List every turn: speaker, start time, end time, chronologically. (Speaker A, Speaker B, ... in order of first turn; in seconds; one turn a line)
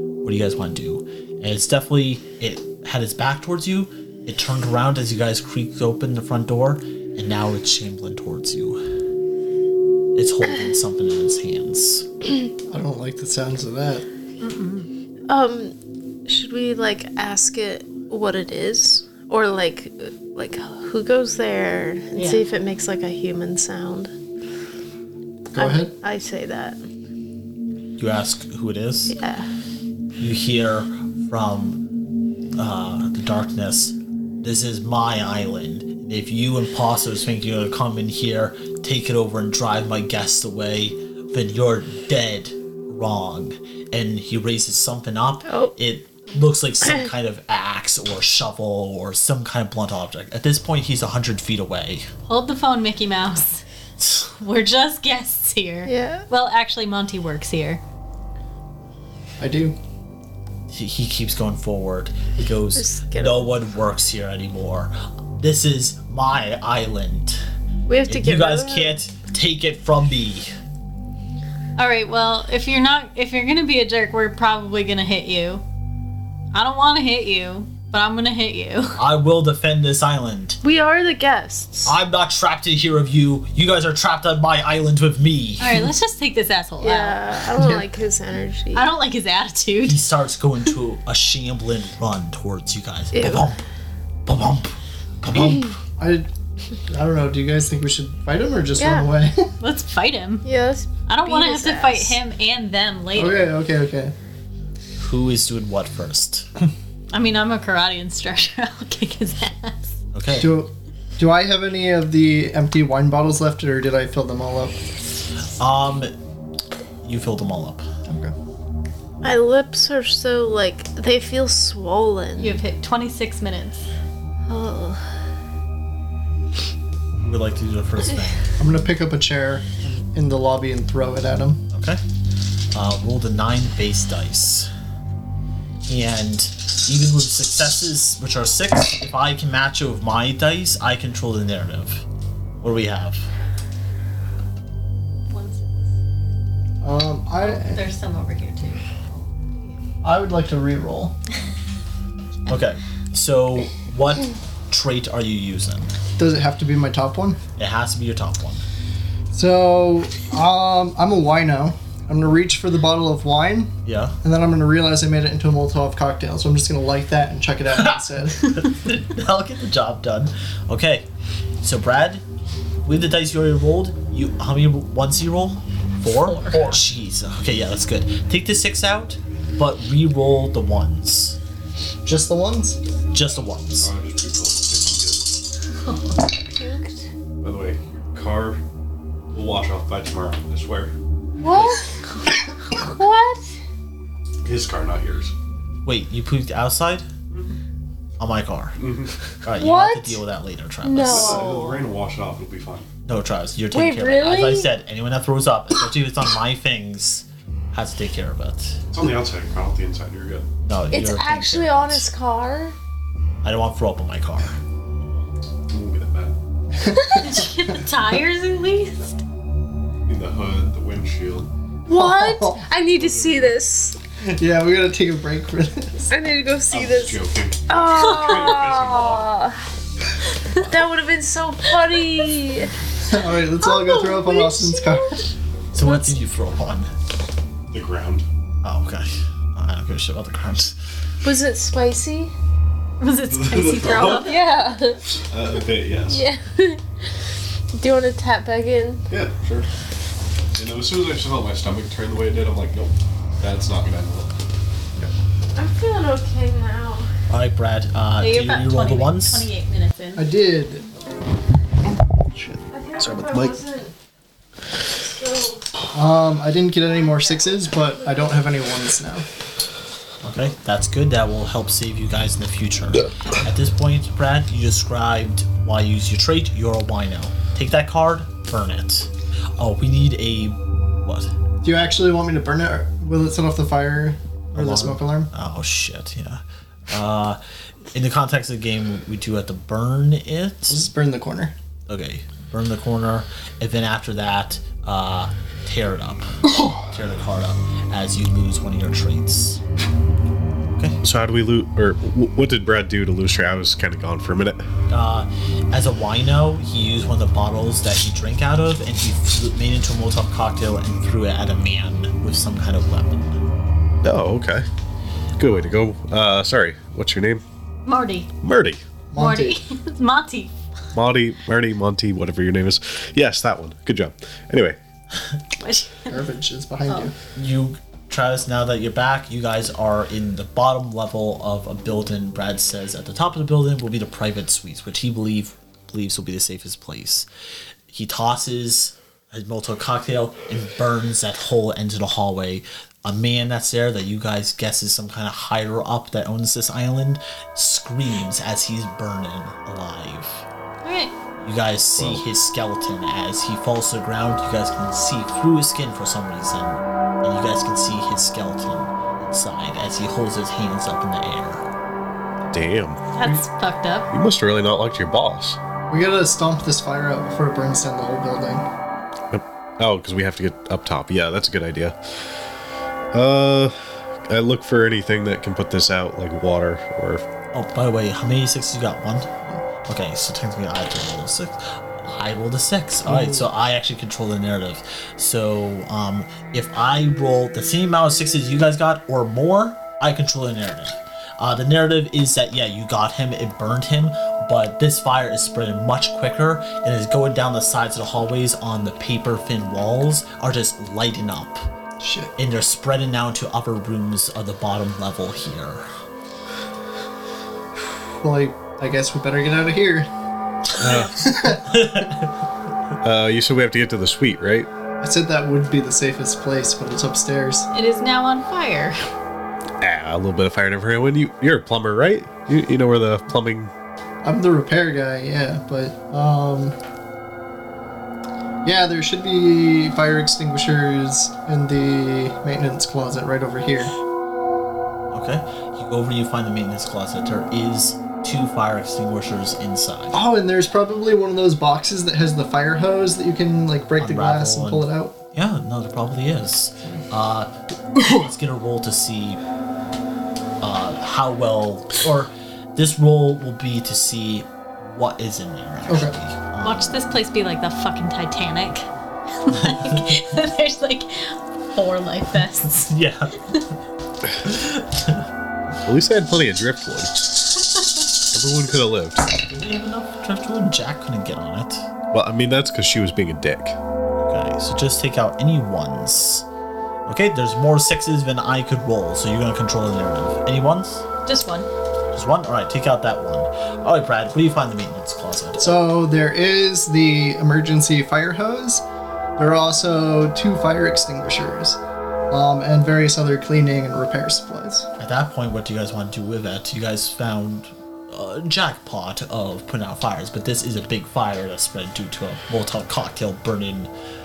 Speaker A: 0.2-8.8
Speaker A: 10.2-12.1
Speaker B: 12.7-14.1
Speaker C: 14.4-14.9
Speaker D: 15.3-15.8
Speaker D: 16.3-24.1
Speaker C: 22.1-22.4
Speaker B: 25.5-25.9
Speaker D: 25.6-26.8
Speaker A: 28.0-29.2
Speaker D: 29.1-29.5
Speaker A: 30.2-31.8
Speaker A: 32.6-52.1
Speaker D: 45.5-45.7
Speaker D: 46.8-47.1
Speaker C: 52.3-53.6
Speaker C: 54.2-57.8
Speaker D: 55.9-56.3
Speaker B: 59.4-59.8
Speaker A: 60.7-67.4
Speaker D: 62.8-63.5
Speaker D: 67.9-68.9
Speaker A: 68.1-70.5
Speaker C: 71.8-75.6
Speaker C: 76.5-79.0
Speaker A: 79.0-80.6
Speaker D: 80.6-81.9
Speaker A: 81.8-85.9
Speaker C: 85.6-87.2
Speaker D: 86.8-88.9
Speaker B: 87.6-87.8
Speaker C: 88.7-90.0
Speaker A: 89.8-93.6
Speaker D: 93.1-93.5
Speaker A: 94.3-95.7
Speaker B: 95.3-96.3
Speaker B: 96.9-99.5
Speaker D: 98.8-99.1
Speaker C: 99.6-100.5
Speaker D: 100.4-102.2
Speaker C: 101.1-103.5
Speaker B: 103.2-104.1
Speaker A: 105.0-106.5
Speaker C: 107.1-110.0
Speaker A: 110.1-110.6
Speaker B: 110.3-114.8
Speaker A: 115.6-116.1
Speaker A: 117.0-117.9
Speaker B: 118.1-118.3
Speaker D: 119.2-122.6
Speaker C: 122.4-123.9
Speaker D: 124.5-125.0
Speaker A: 127.2-128.5
Speaker B: 128.6-131.6
Speaker A: 131.7-132.0
Speaker A: 132.7-134.7
Speaker A: 135.9-142.1
Speaker A: 142.6-143.3
Speaker C: 145.3-145.9
Speaker B: 146.8-147.8
Speaker C: 147.4-149.3
Speaker B: 150.0-151.2
Speaker A: 152.5-155.9
Speaker B: 156.2-157.4
Speaker A: 157.6-158.6
Speaker B: 159.3-168.6
Speaker A: 163.8-164.2
Speaker A: 168.4-171.1
Speaker A: 171.6-172.2
Speaker A: 172.8-181.4
Speaker C: 176.2-176.6
Speaker B: 182.1-182.8
Speaker A: 183.1-183.9
Speaker E: 183.8-185.4
Speaker C: 185.8-186.2
Speaker D: 186.5-187.1
Speaker E: 187.4-188.6
Speaker E: 189.3-190.9
Speaker D: 191.4-192.1
Speaker D: 192.7-193.4
Speaker E: 194.4-195.3
Speaker A: 195.8-197.1
Speaker A: 198.2-198.8
Speaker E: 198.8-199.2
Speaker A: 199.4-201.5
Speaker D: 199.6-200.2
Speaker D: 200.8-201.8
Speaker E: 201.0-202.9
Speaker A: 203.1-208.8
Speaker D: 203.7-204.7
Speaker E: 208.9-210.5
Speaker A: 210.6-212.1
Speaker D: 210.9-212.8
Speaker A: 213.4-214.6
Speaker E: 215.7-216.3
Speaker B: 216.8-217.5
Speaker D: 217.0-217.3
Speaker C: 217.2-219.1
Speaker E: 220.1-221.5
Speaker B: 221.9-222.6
Speaker D: 221.9-224.0
Speaker E: 222.9-223.6
Speaker B: 224.2-226.1
Speaker D: 226.1-229.6
Speaker E: 226.7-229.3
Speaker C: 228.0-228.6
Speaker D: 230.5-232.7
Speaker C: 231.9-232.3
Speaker B: 233.0-235.2
Speaker D: 233.6-235.2
Speaker A: 235.7-236.9
Speaker E: 237.7-238.2
Speaker A: 238.6-240.7
Speaker D: 241.2-242.3
Speaker C: 243.0-244.4
Speaker E: 243.3-244.4
Speaker D: 243.9-245.0
Speaker E: 245.3-246.2
Speaker D: 246.0-246.9
Speaker D: 247.7-249.1
Speaker E: 249.1-249.7
Speaker E: 250.6-254.3
Speaker D: 255.6-257.1
Speaker A: 257.3-259.5
Speaker C: 258.2-260.2
Speaker B: 260.2-260.9
Speaker E: 262.3-263.6
Speaker D: 262.7-263.9
Speaker D: 264.9-265.7
Speaker B: 265.9-269.3
Speaker D: 266.9-268.3
Speaker A: 270.2-281.3
Speaker B: 281.6-285.3
Speaker A: 284.5-287.4
Speaker A: 287.9-290.9
Speaker B: 290.7-291.5
Speaker A: 291.9-299.6
Speaker E: 301.0-304.6
Speaker A: 304.9-313.4
Speaker E: 314.0-314.7
Speaker E: 315.4-317.4
Speaker C: 317.9-318.3
Speaker E: 318.4-318.8
Speaker B: 319.1-319.6
Speaker C: 319.2-320.5
Speaker E: 320.9-324.8
Speaker C: 325.6-326.2
Speaker B: 326.1-327.1
Speaker A: 327.4-337.3
Speaker A: 337.9-350.5
Speaker C: 350.8-351.2
Speaker A: 351.4-361.7
Speaker E: 352.0-352.2
Speaker E: 362.5-363.0
Speaker C: 363.1-364.1
Speaker E: 364.1-365.6
Speaker B: 365.9-368.7
Speaker E: 369.3-372.1
Speaker E: 373.1-373.8
Speaker E: 374.3-377.2
Speaker A: 377.5-379.3
Speaker A: 379.9-401.6
Speaker B: 383.1-383.5
Speaker B: 402.0-402.3
Speaker A: 402.4-405.9
Speaker B: 407.8-410.1
Speaker E: 410.8-411.2
Speaker A: 410.8-412.3
Speaker B: 411.1-411.8
Speaker E: 413.0-414.7
Speaker B: 415.0-417.7
Speaker C: 417.7-419.0
Speaker E: 419.8-423.7
Speaker B: 424.2-426.8
Speaker B: 428.6-433.9
Speaker A: 435.1-440.2
Speaker B: 440.1-445.1
Speaker A: 444.0-449.4
Speaker A: 450.6-457.2
Speaker B: 455.9-456.1
Speaker C: 456.6-462.9
Speaker A: 459.6-460.1
Speaker A: 462.6-463.6
Speaker A: 464.4-465.3
Speaker E: 465.9-467.1
Speaker E: 468.3-469.3
Speaker A: 469.5-471.9
Speaker E: 472.1-473.8
Speaker A: 474.2-476.5
Speaker A: 477.1-481.1
Speaker C: 481.3-481.7
Speaker A: 482.1-485.8
Speaker B: 485.6-488.9
Speaker B: 489.4-491.8
Speaker B: 492.3-494.9
Speaker A: 495.0-503.9